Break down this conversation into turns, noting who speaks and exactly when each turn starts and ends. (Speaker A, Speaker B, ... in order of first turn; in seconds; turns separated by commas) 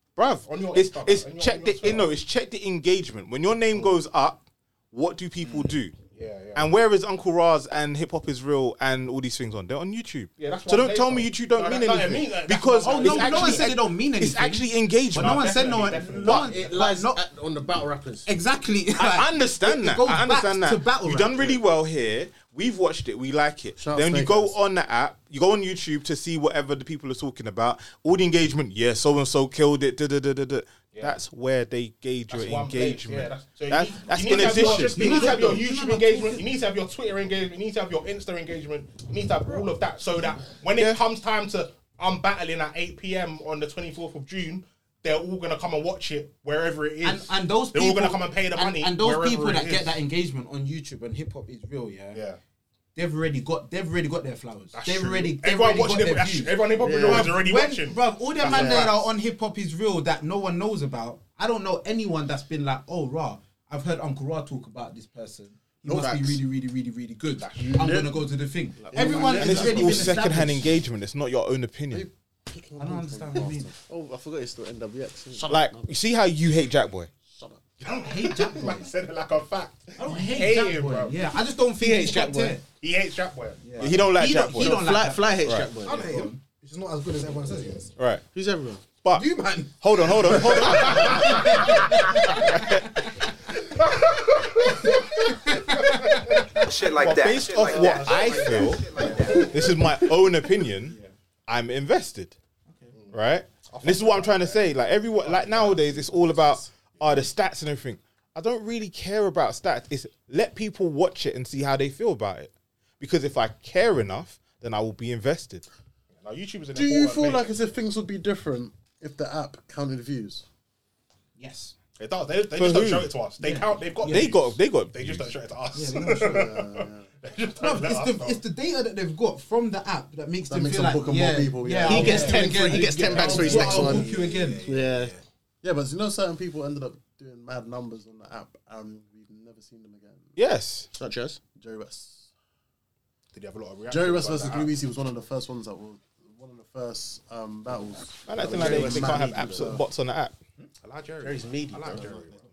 Speaker A: 0.1-6.0, Speaker B: 0.4-2.1, Speaker B: 6.1-6.7, Speaker A: 6.5-16.4, Speaker B: 10.4-13.7, Speaker C: 12.8-17.2, Speaker B: 15.1-16.6, Speaker D: 16.3-18.3, Speaker C: 18.3-21.6, Speaker A: 19.0-35.6, Speaker E: 23.8-24.6, Speaker B: 30.9-31.2, Speaker B: 32.3-50.0, Speaker C: 34.2-36.4, Speaker A: 40.7-41.0, Speaker C: 47.0-52.2, Speaker B: 52.1-52.4, Speaker C: 52.9-70.7, Speaker B: 54.7-59.1, Speaker D: 56.8-57.3, Speaker D: 58.5-58.8, Speaker D: 65.9-66.4, Speaker B: 67.3-67.8, Speaker E: 67.6-68.3, Speaker D: 68.8-69.7, Speaker E: 68.9-70.2, Speaker F: 69.0-70.1, Speaker A: 69.4-72.1, Speaker E: 71.9-73.7, Speaker C: 72.8-73.7, Speaker D: 73.8-75.9, Speaker A: 75.5-77.1, Speaker C: 77.8-78.9, Speaker B: 77.8-81.2, Speaker C: 80.0-82.6, Speaker D: 81.8-82.6, Speaker B: 82.7-84.0, Speaker C: 83.6-86.4, Speaker A: 83.8-84.8, Speaker D: 84.5-86.3, Speaker A: 85.4-85.7, Speaker F: 85.8-87.9, Speaker A: 88.0-88.2, Speaker D: 88.3-88.8, Speaker A: 89.0-91.6, Speaker F: 89.1-92.5, Speaker A: 92.5-92.8, Speaker B: 93.8-96.5, Speaker G: 96.6-99.5, Speaker A: 97.0-101.0, Speaker B: 97.1-99.7, Speaker A: 101.5-102.3, Speaker B: 102.9-106.5, Speaker A: 103.1-115.6, Speaker B: 107.0-107.3, Speaker B: 116.2-117.6, Speaker E: 116.7-120.4, Speaker C: 121.4-121.7, Speaker B: 122.0-128.4, Speaker A: 122.5-123.1, Speaker C: 123.4-124.3, Speaker A: 124.1-125.3, Speaker C: 125.7-126.5, Speaker E: 126.2-127.1, Speaker C: 127.6-135.1, Speaker E: 130.5-134.1, Speaker F: 131.8-135.1, Speaker D: 131.8-135.1, Speaker E: 135.6-140.3, Speaker A: 140.3-140.9, Speaker D: 140.9-141.4, Speaker E: 141.6-142.3, Speaker B: 143.3-144.7, Speaker E: 143.9-149.8, Speaker A: 148.3-150.3, Speaker D: 148.4-149.8, Speaker B: 150.8-152.4, Speaker D: 151.2-152.3